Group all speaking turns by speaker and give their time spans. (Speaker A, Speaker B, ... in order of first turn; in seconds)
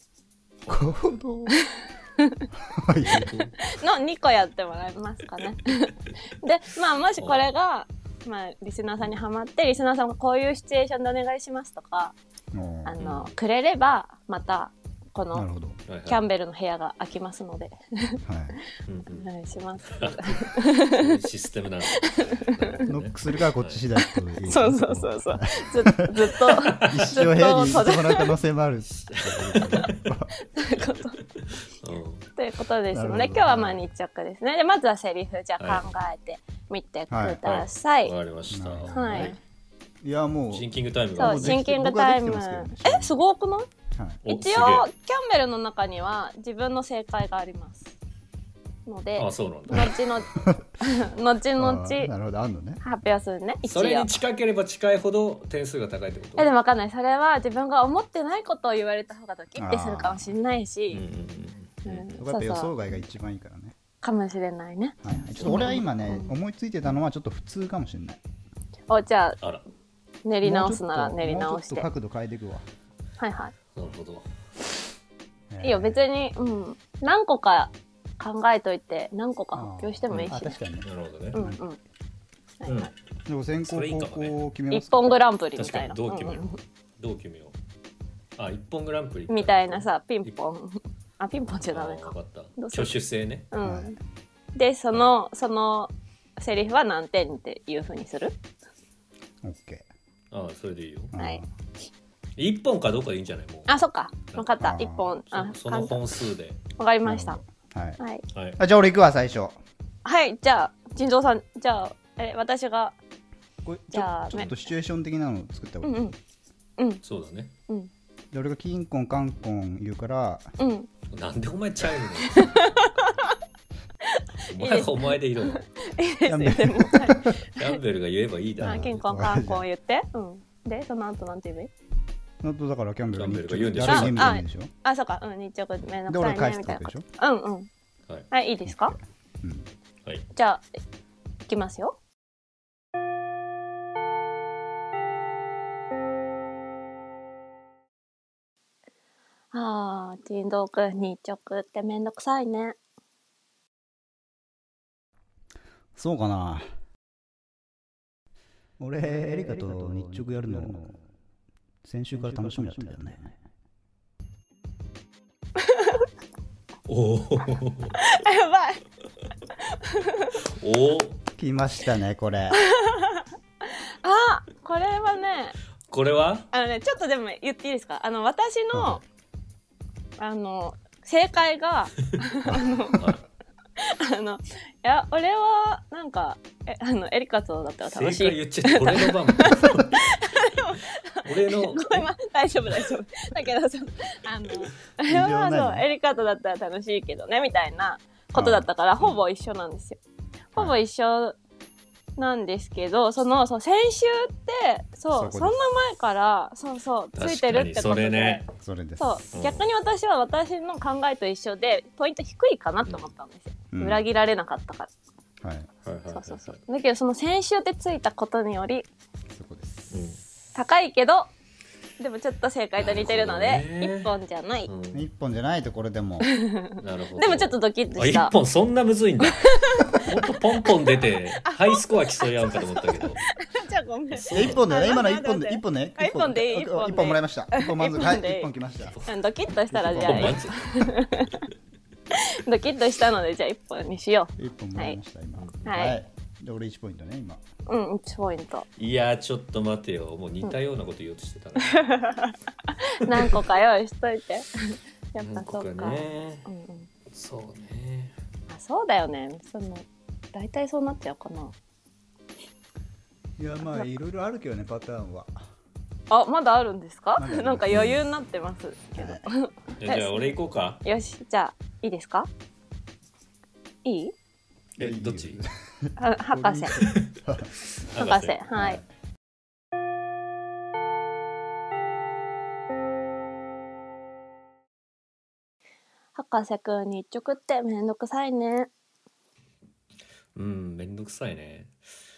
Speaker A: 0.6-1.0, 3.0-3.7, 7.2-7.5, 13.0-13.3, 15.9-16.2, 18.9-19.3, 19.9-23.8, 26.6-27.3, 28.9-30.0, 30.7-32.2, 35.6-35.9, 37.4-39.3, 40.5-41.7, 44.2-44.9, 49.2-50.1, 53.6-56.5, 60.9-62.2, 73.7-74.2, 80.8-81.4, 82.7-82.9, 83.6-84.3, 85.5-87.5, 88.4-89.9, 91.7-93.5, 100.3-101.1, 102.4-103.8, 104.3-104.7, 105.3-106.6, 108.3-108.6, 117.0-117.5, 121.1-123.0, 124.5-125.7, 127.5-128.9, 133.1-134.3, 166.9-168.0, 170.4-171.2, 175.9-176.5, 187.8-190.2, 191.2-192.1, 207.2-208.5, 209.3-209.7, 215.8-216.6, 219.9-220.2, 222.8-224.1, 224.7-225.0, 226.8-233.2, 234.1-234.7, 239.9-240.9, 248.8-251.9, 253.2-253.4, 255.2-256.5, 257.1-258.1, 269.8-270.8, 274.8-275.4, 276.8-278.5, 290.3-291.7
Speaker B: 0.7-1.6, 2.6-3.3, 12.5-12.9, 15.3-15.8, 18.2-18.6, 22.9-26.1, 26.8-30.3, 32.9-33.8, 37.1-37.4, 38.5-39.4, 40.0-43.2, 43.9-44.2, 50.3-50.7, 51.6-52.8, 59.6-60.3, 62.2-63.8, 65.0-68.2, 70.4-72.7, 75.5-76.0, 79.5-81.6, 83.3-85.2, 93.6-94.0, 99.4-99.9, 101.1-101.4, 104.6-105.1, 107.0-108.0, 108.6-109.6, 113.6-116.0, 118.3-120.5, 126.2-127.3, 128.6-129.6, 132.4-134.7, 136.1-137.1, 138.7-139.7, 155.9-156.6, 158.8-161.0, 161.8-163.3, 171.3-172.6, 178.7-179.0, 182.4-183.0, 195.1-195.8, 198.3-198.7, 205.1-205.6, 208.6-209.2, 213.7-214.0, 215.4-215.7, 219.3-220.1, 224.9-226.3, 234.3-238.9, 239.7-240.4, 244.4-247.4, 263.4-265.4, 267.2-267.9, 268.9-269.2, 274.8-277.5, 278.5-278.8
Speaker C: 1.6-2.5, 3.6-12.1, 12.8-15.5, 16.1-18.2, 19.1-21.1, 21.9-22.9, 24.4-28.4, 29.8-31.2, 32.4-38.1, 38.9-39.4, 41.1-43.7, 44.3-47.9, 48.9-52.1, 52.8-54.2, 56.4-61.0, 61.8-62.8, 64.0-66.3, 68.9-69.4, 70.2-71.8, 73.2-73.5, 75.6-80.6, 81.3-81.8, 82.6-82.9, 84.7-86.6, 89.3-93.0, 93.5-94.0, 94.5-98.4, 101.2-101.4, 103.7-106.0, 106.8-107.4, 110.0-113.0, 113.9-114.5, 115.8-116.1, 116.8-117.0, 120.6-120.9, 122.2-123.3, 124.0-127.8, 128.6-131.7, 133.8-137.7, 138.3-138.9, 140.3-140.6, 141.4-142.0, 149.5-152.8, 165.6-166.0, 168.0-168.8, 169.7-170.3, 172.5-175.5, 176.5-179.0, 180.2-183.0, 183.8-200.0, 200.5-201.4, 202.2-208.4, 209.0-214.9, 216.1-218.9, 220.5-221.3, 222.0-224.7, 226.2-228.3, 229.2-230.4, 231.4-238.5, 239.1-241.4, 242.1-245.0, 245.7-246.0, 247.7-248.7, 251.7-256.9, 258.5-261.5, 266.1-272.3, 273.8-274.1, 276.0-276.8, 277.9-278.8, 286.1-288.7